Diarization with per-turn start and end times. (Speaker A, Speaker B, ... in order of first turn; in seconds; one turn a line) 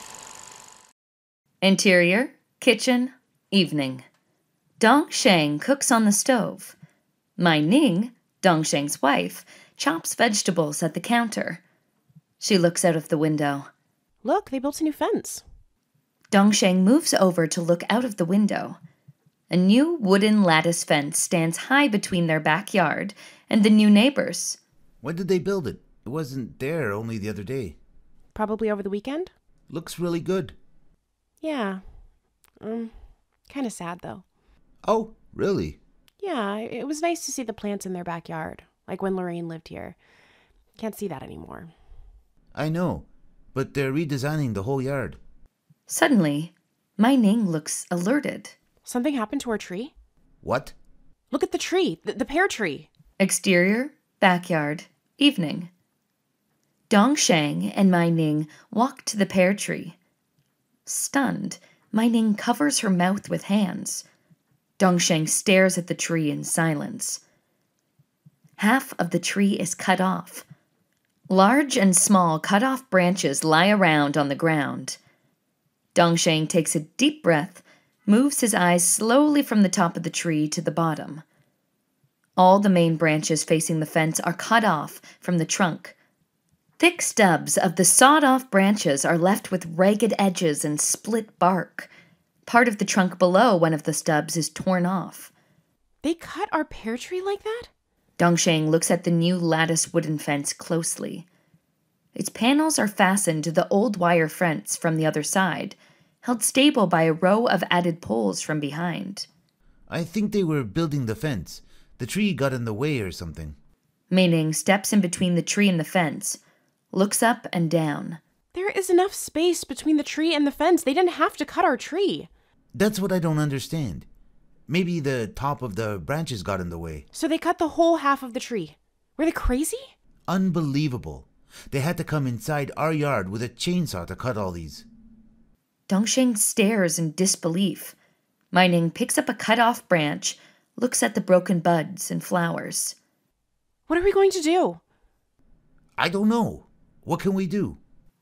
Speaker A: 1.6-4.0
Speaker A: 4.8-6.8
Speaker A: 7.4-11.6
Speaker A: 12.4-13.7
Speaker B: 14.2-15.4
Speaker A: 16.3-18.8
Speaker A: 19.5-24.6
Speaker C: 25.0-27.8
Speaker B: 28.4-29.3
Speaker C: 29.7-30.6
Speaker B: 31.4-31.8
Speaker B: 32.6-32.9
Speaker B: 33.5-34.2
Speaker C: 34.9-35.8
Speaker B: 36.2-40.0
Speaker B: 40.8-41.7
Speaker C: 42.5-45.2
Speaker A: 45.9-48.5
Speaker B: 48.9-49.9
Speaker C: 50.4-50.8
Speaker B: 51.3-52.9
Speaker A: 53.2-55.7
Speaker A: 56.9-60.0
Speaker A: 60.9-64.1
Speaker A: 64.8-67.2
Speaker A: 68.6-70.5
Speaker A: 71.3-75.0
Speaker A: 76.0-81.2
Speaker A: 82.4-86.0
Speaker A: 86.8-91.9
Speaker A: 92.5-95.3
Speaker B: 96.0-97.7
Speaker A: 98.2-101.3
Speaker A: 102.2-109.3
Speaker C: 109.9-113.6
Speaker A: 114.1-116.4
Speaker A: 116.9-118.2
Speaker B: 118.5-122.3
Speaker C: 122.8-124.1
Speaker C: 124.7-127.1
Speaker B: 127.1-129.9
Speaker C: 130.3-134.9
Speaker A: 135.9-138.0
Speaker A: 138.5-143.0
Speaker B: 143.9-144.8
Speaker C: 146.0-147.8